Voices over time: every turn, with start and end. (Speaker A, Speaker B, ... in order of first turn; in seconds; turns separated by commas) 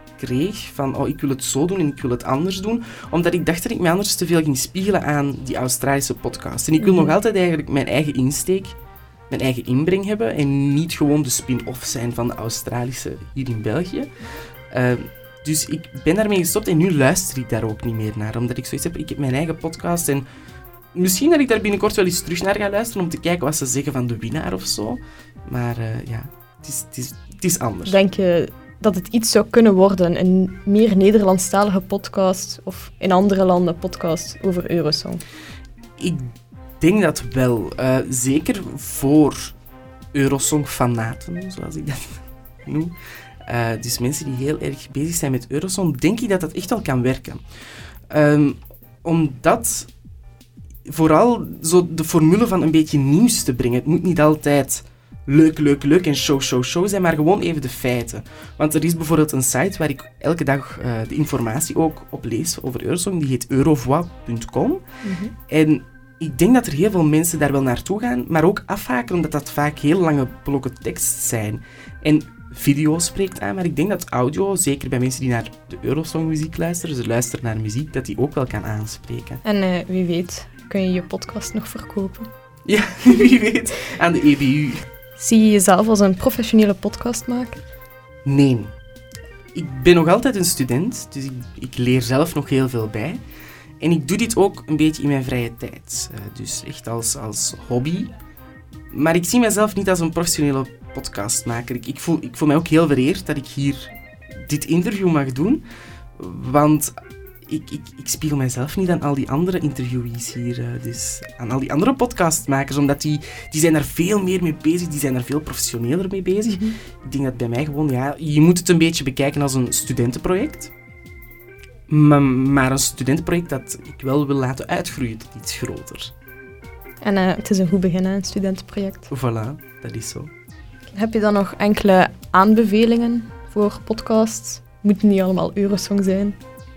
Speaker A: 0.2-8.8, Speaker B: 6.8-7.2, Speaker A: 9.3-14.1, Speaker A: 14.7-20.2, Speaker A: 20.9-27.9, Speaker B: 27.9-35.2, Speaker A: 36.8-39.5, Speaker A: 40.1-42.9, Speaker A: 43.5-47.4, Speaker A: 48.1-49.9, Speaker A: 50.9-64.8, Speaker B: 65.0-65.3, Speaker A: 65.5-79.4, Speaker B: 79.4-82.3, Speaker A: 82.7-84.8, Speaker B: 85.2-87.6, Speaker A: 88.2-88.7, Speaker A: 89.5-93.2, Speaker A: 93.8-98.1, Speaker A: 98.9-103.9, Speaker A: 104.5-105.6, Speaker A: 106.2-106.9, Speaker A: 107.5-120.7, Speaker B: 116.5-116.8, Speaker A: 121.9-126.1, Speaker B: 127.0-129.1, Speaker A: 129.1-130.3, Speaker B: 130.9-136.4